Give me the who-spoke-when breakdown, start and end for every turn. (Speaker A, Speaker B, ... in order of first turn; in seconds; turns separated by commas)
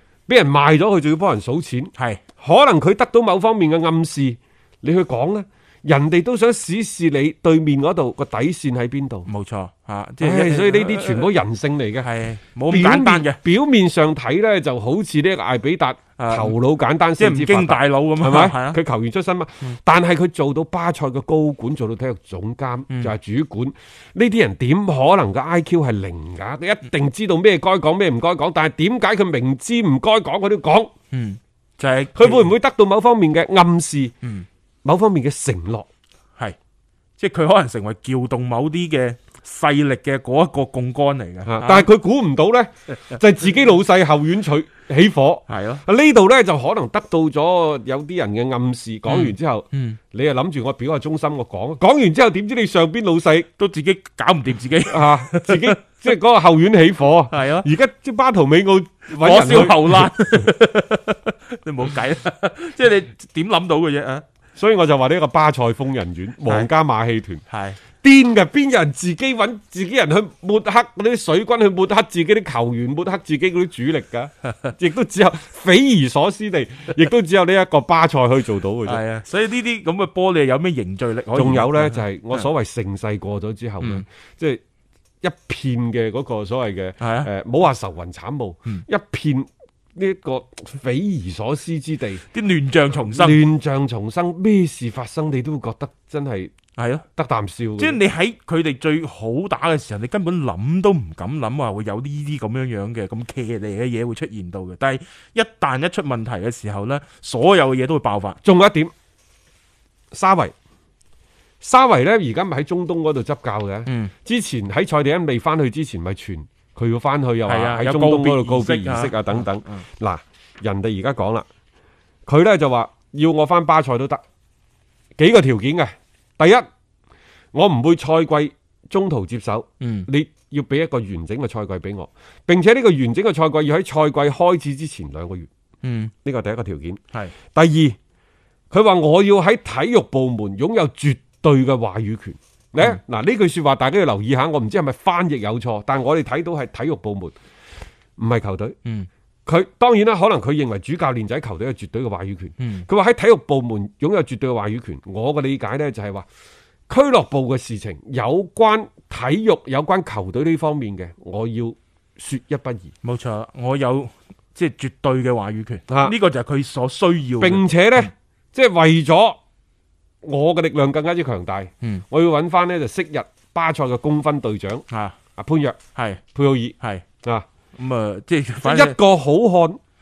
Speaker A: 0.3-9.3, Speaker B: 9.2-11.3, Speaker A: 10.2-12.1, Speaker B: 12.0-13.4, Speaker A: 12.7-30.9, Speaker B: 16.2-16.5, Speaker B: 17.2-18.8, Speaker B: 31.1-32.5, Speaker A: 32.1-34.1, Speaker A: 34.8-35.9, Speaker B: 37.2-41.9, Speaker A: 41.5-53.5, Speaker B: 45.5-45.8, Speaker B: 49.1-50.0, Speaker B: 53.6-56.0, Speaker A: 54.9-60.1, Speaker B: 57.3-57.7, Speaker B: 59.1-64.2, Speaker A: 64.5-67.4, Speaker B: 67.5-67.8, Speaker A: 68.0-79.0, Speaker B: 78.8-82.5, Speaker A: 81.3-84.6, Speaker A: 85.2-92.2, Speaker B: 87.0-87.3, Speaker B: 92.3-93.4, Speaker A: 93.1-96.5, Speaker B: 96.8-97.0, Speaker A: 97.2-98.0, Speaker B: 97.8-108.4, Speaker A: 108.4-108.9, Speaker A: 110.1-110.5, Speaker A: 111.6-121.5, Speaker B: 117.5-119.8, Speaker A: 122.3-124.2, Speaker A: 125.2-126.7, Speaker A: 127.5-135.5, Speaker B: 129.8-130.1, Speaker B: 135.8-136.1, Speaker A: 136.2-137.0, Speaker A: 137.5-138.0, Speaker A: 138.7-147.3, Speaker A: 148.2-148.8, Speaker A: 149.4-156.2, Speaker B: 152.6-152.9, Speaker A: 156.9-162.9, Speaker B: 163.0-168.1, Speaker A: 165.9-166.2, Speaker A: 167.4-169.4, Speaker A: 170.2-175.8, Speaker B: 174.9-175.2, Speaker B: 175.9-176.2, Speaker A: 176.3-177.4, Speaker B: 177.8-179.0, Speaker A: 178.6-179.8